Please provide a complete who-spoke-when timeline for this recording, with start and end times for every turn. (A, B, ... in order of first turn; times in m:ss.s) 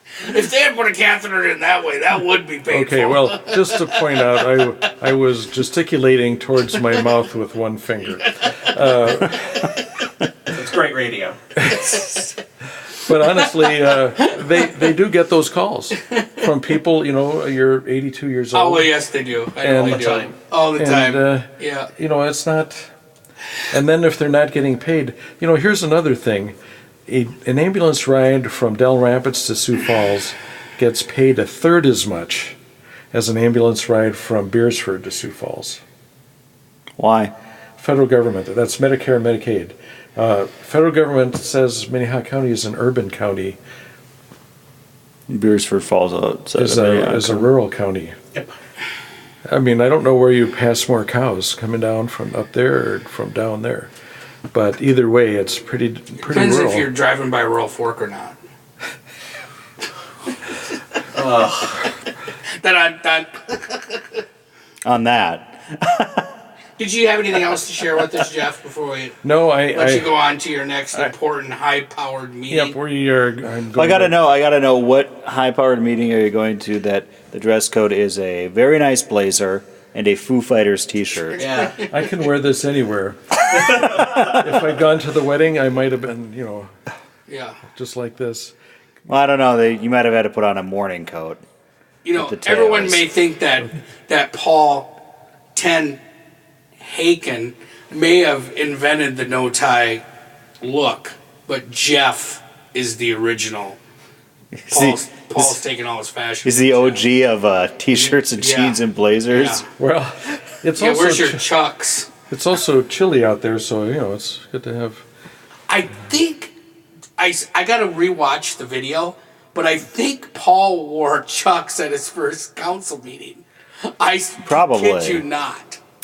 0:00.2-0:04.5 A
0:02.7-0:09.8 B
0:08.2-0:08.6 A
0:10.5-0:11.4 C
0:11.6-0:12.2 B
0:11.9-0:12.2 A
0:12.9-0:18.9 B
0:18.5-0:21.9 A
0:19.6-0:20.1 B
0:19.8-0:20.3 C
0:20.8-0:22.9 B
0:23.7-0:26.6 B
0:27.1-0:32.6 B
0:33.1-0:35.8 B
0:37.0-0:37.3 D
0:37.8-0:43.6 B
0:45.3-0:47.5 D
0:46.6-0:48.2 B
0:49.5-0:53.9 B
0:54.5-0:56.9 B
0:56.2-0:58.4 A
1:01.1-1:01.9 C
1:02.5-1:04.2 A
1:04.8-1:06.3 D
1:06.8-1:09.2 A
1:09.2-1:10.1 B
1:09.7-1:12.8 A
1:12.5-1:14.2 B
1:13.7-1:21.6 D
1:21.4-1:21.8 C
1:21.8-1:26.7 B
1:23.9-1:24.4 D
1:27.3-1:27.6 A
1:27.7-1:28.5 B
1:29.1-1:31.4 D
1:32.0-1:34.9 A
1:32.2-1:33.1 D
1:35.5-1:36.0 A
1:36.8-1:40.0 A
1:40.6-1:43.8 A
1:44.6-1:45.6 D
1:44.7-1:47.0 A
1:46.4-1:49.6 D
1:48.2-1:48.8 A
1:49.3-1:49.6 A
1:49.8-1:51.4 B
1:50.8-1:52.1 A
1:52.3-1:55.0 B
1:55.7-1:56.5 A
1:57.2-2:03.4 A
2:04.0-2:05.8 A
2:04.5-2:05.2 D